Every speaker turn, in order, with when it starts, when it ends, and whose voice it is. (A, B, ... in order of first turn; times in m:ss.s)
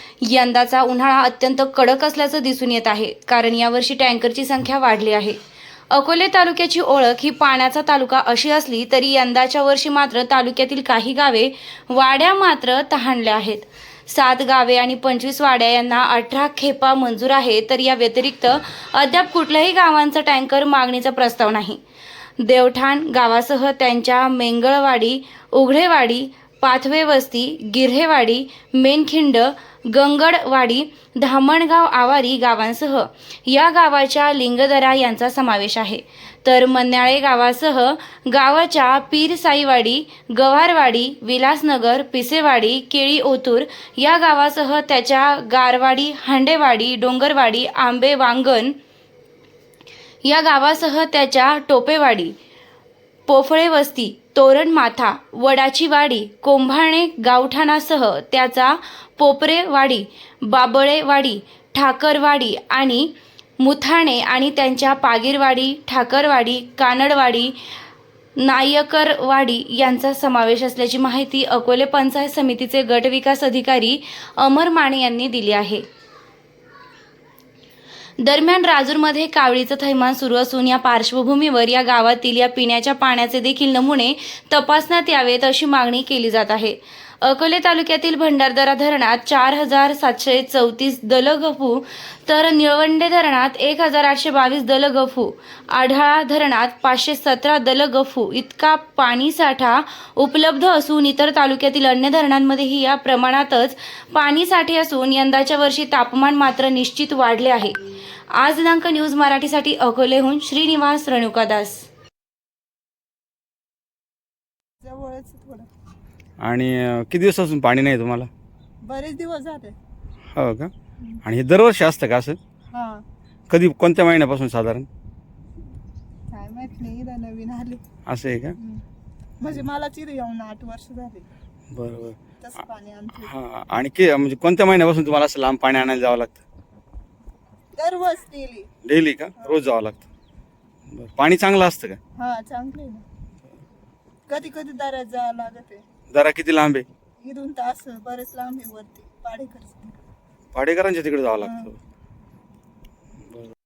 0:00.2-0:05.4 A
0:05.9-0:21.8 A
0:22.4-0:48.8 A
0:50.2-0:52.3 A
0:53.3-1:07.6 A
1:08.4-1:15.8 A
1:18.2-1:47.8 A
1:48.3-1:51.8 A
1:54.8-1:55.7 B
1:56.4-1:58.3 C
1:58.8-1:59.8 B
2:00.3-2:00.7 C
2:01.2-2:02.4 C
2:02.7-2:03.0 B
2:03.5-2:04.9 C
2:06.3-2:07.8 B
2:08.0-2:08.6 C
2:09.4-2:11.2 B
2:11.7-2:12.2 C
2:12.4-2:13.3 B
2:13.2-2:16.4 C
2:17.8-2:18.7 B
2:18.8-2:20.0 C
2:20.9-2:22.0 C
2:22.2-2:23.0 B
2:24.3-2:25.8 B
2:26.1-2:26.8 C
2:27.2-2:30.0 B
2:30.5-2:31.8 C
2:31.4-2:31.7 B